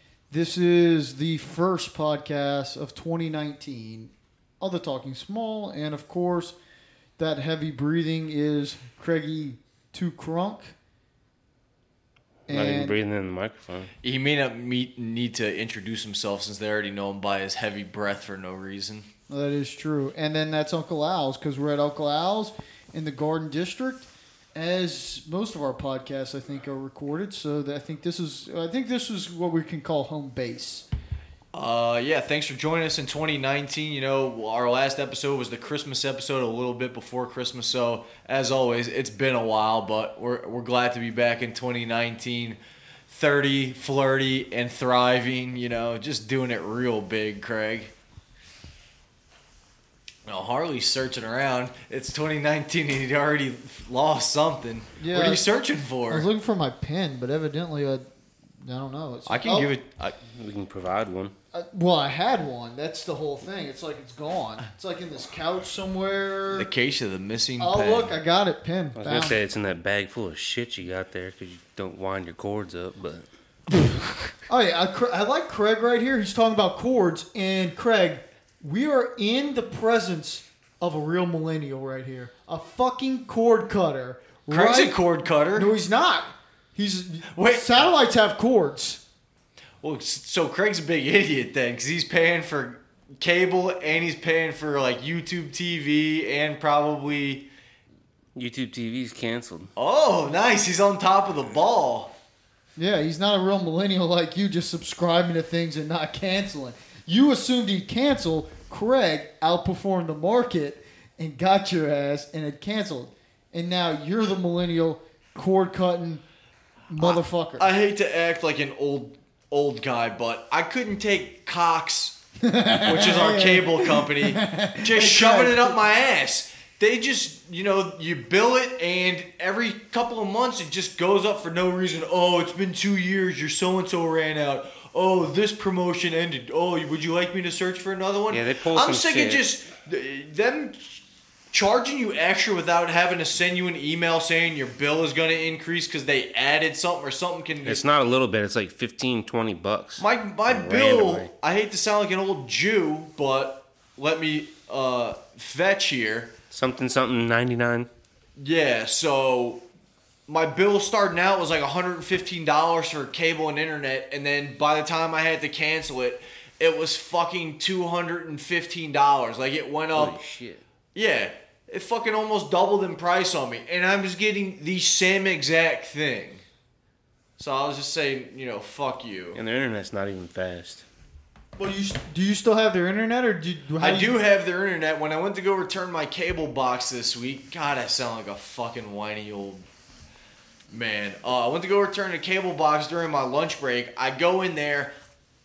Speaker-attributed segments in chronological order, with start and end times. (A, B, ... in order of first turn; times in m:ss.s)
0:00.3-0:06.5 A
0:07.2-0:10.7 A
0:12.5-0:13.0 A
0:12.5-0:13.9 B
0:14.0-0:19.1 C
0:19.3-0:30.8 A
0:31.5-0:47.9 C
0:50.2-0:56.2 C
0:55.0-0:55.4 A
0:56.1-0:58.0 A
0:58.6-0:59.7 A
0:59.3-1:00.2 C
1:00.3-1:01.3 B
1:01.5-1:06.7 A
1:06.5-1:08.1 C
1:07.6-1:09.4 A
1:09.0-1:13.2 B
1:14.5-1:25.0 A
1:24.5-1:25.7 C
1:25.5-1:29.0 A
1:27.3-1:27.6 C
1:29.8-1:37.5 C
1:38.3-1:39.7 B
1:39.8-1:42.1 C
1:42.8-1:56.2 A
1:56.9-1:57.7 A
1:57.0-2:02.2 C
2:02.4-2:05.8 A
2:02.8-2:21.0 C
2:18.3-2:19.4 B
2:21.5-2:27.8 C
2:27.6-2:31.3 B
2:30.0-2:36.3 C
2:36.5-2:37.9 B
2:38.4-2:39.6 C
2:40.3-2:50.2 C
2:49.9-2:50.6 B
2:50.9-2:56.4 C
2:57.4-2:59.4 C
2:59.3-3:00.8 B
3:01.6-3:04.2 A
3:03.8-3:09.6 C
3:10.7-3:14.9 C